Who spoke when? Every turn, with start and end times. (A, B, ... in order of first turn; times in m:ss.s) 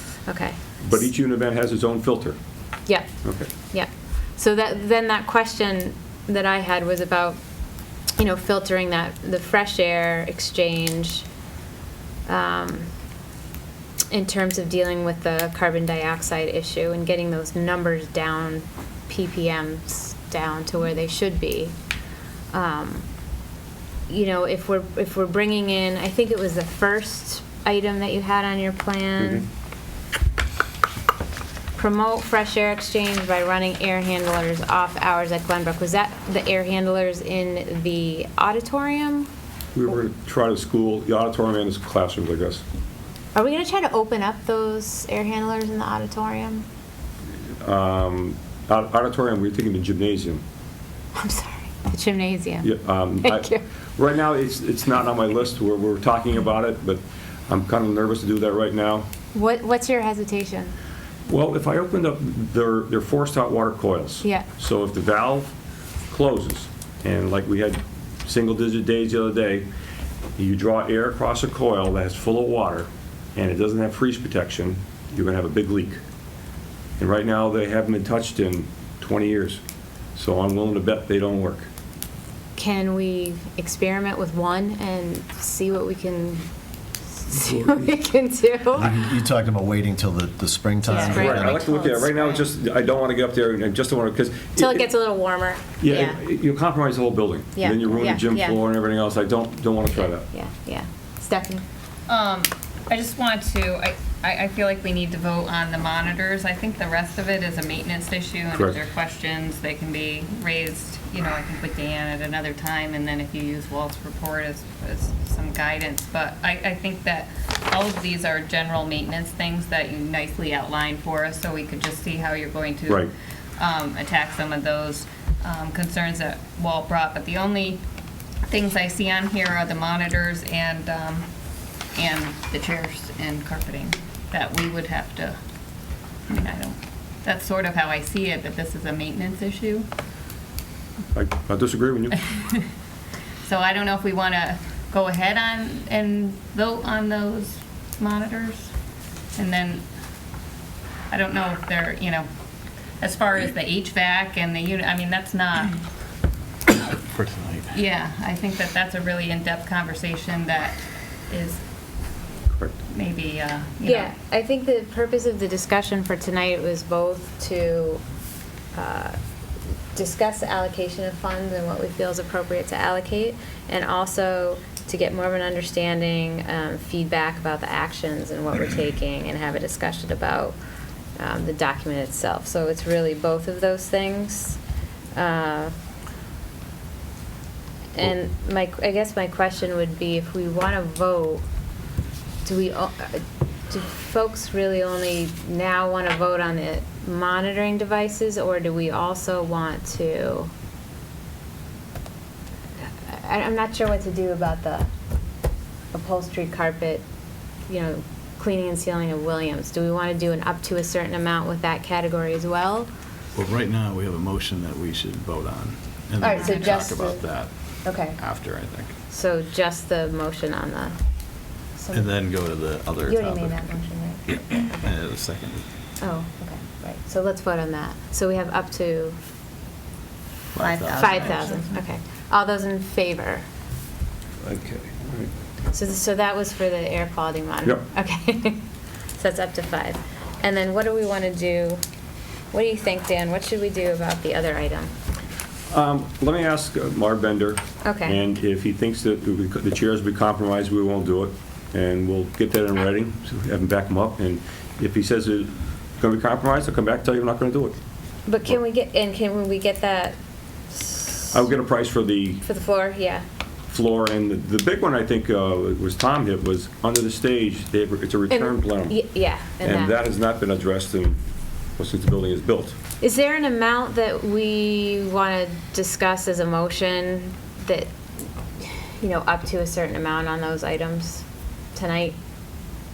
0:00.3-0:01.0 A
0:00.8-0:02.4 B
0:02.9-0:07.4 A
0:03.2-0:03.5 B
0:08.2-0:11.2 A
0:12.3-0:12.9 A
0:14.1-0:21.7 A
0:22.5-0:23.1 A
0:24.1-0:29.5 A
0:31.7-0:39.3 A
0:39.8-0:42.6 B
0:43.3-0:46.6 A
0:47.6-0:50.4 B
0:51.1-0:53.6 A
0:52.6-0:59.1 B
0:59.3-1:00.7 A
1:01.3-1:05.5 B
1:06.1-1:09.7 B
1:10.4-1:16.0 B
1:17.0-1:19.6 B
1:20.2-1:21.7 B
1:22.6-1:26.5 A
1:27.2-1:29.2 A
1:28.8-1:31.6 C
1:30.8-1:32.4 A
1:31.0-1:34.8 B
1:34.6-1:36.2 A
1:35.8-1:40.2 B
1:37.6-1:38.6 A
1:40.3-1:41.6 A
1:42.1-2:07.8 D
2:08.4-2:11.3 D
2:11.9-2:15.4 D
2:16.3-2:19.9 D
2:21.1-2:22.2 B
2:23.4-2:28.7 D
2:29.4-2:29.8 D
2:31.1-2:32.3 D
2:33.0-2:35.8 D
2:36.7-2:37.7 E
2:37.7-2:41.6 D
2:42.9-2:44.1 D
2:43.8-2:48.0 A
2:48.7-2:49.2 A
2:49.9-3:00.5 A
3:01.2-3:04.6 A
3:05.1-3:05.7 A
3:07.9-3:11.4 A
3:12.4-3:20.5 A
3:22.8-3:24.9 A
3:25.9-3:27.0 A
3:27.7-3:32.9 A
3:33.3-3:38.9 E
3:36.2-3:37.2 A
3:36.2-3:36.8 D
3:37.8-3:38.2 A
3:39.1-3:41.0 A
3:41.8-3:42.1 A
3:41.9-3:45.6 E
3:43.1-3:44.9 A
3:46.0-3:49.2 A
3:50.5-3:51.5 E
3:50.6-3:51.8 D
3:50.9-3:53.4 A
3:54.4-3:55.3 B
3:55.7-3:58.6 A
3:59.2-4:01.8 A
4:02.5-4:04.9 A
4:05.7-4:17.8 B
4:07.8-4:08.2 A
4:18.3-4:20.2 A
4:20.7-4:21.3 A
4:21.3-4:22.4 B
4:22.4-4:23.2 A
4:23.7-4:29.0 B
4:28.3-4:30.0 A
4:29.6-4:31.2 B
4:31.8-4:32.8 B
4:33.0-4:37.9 A
4:38.6-4:42.2 A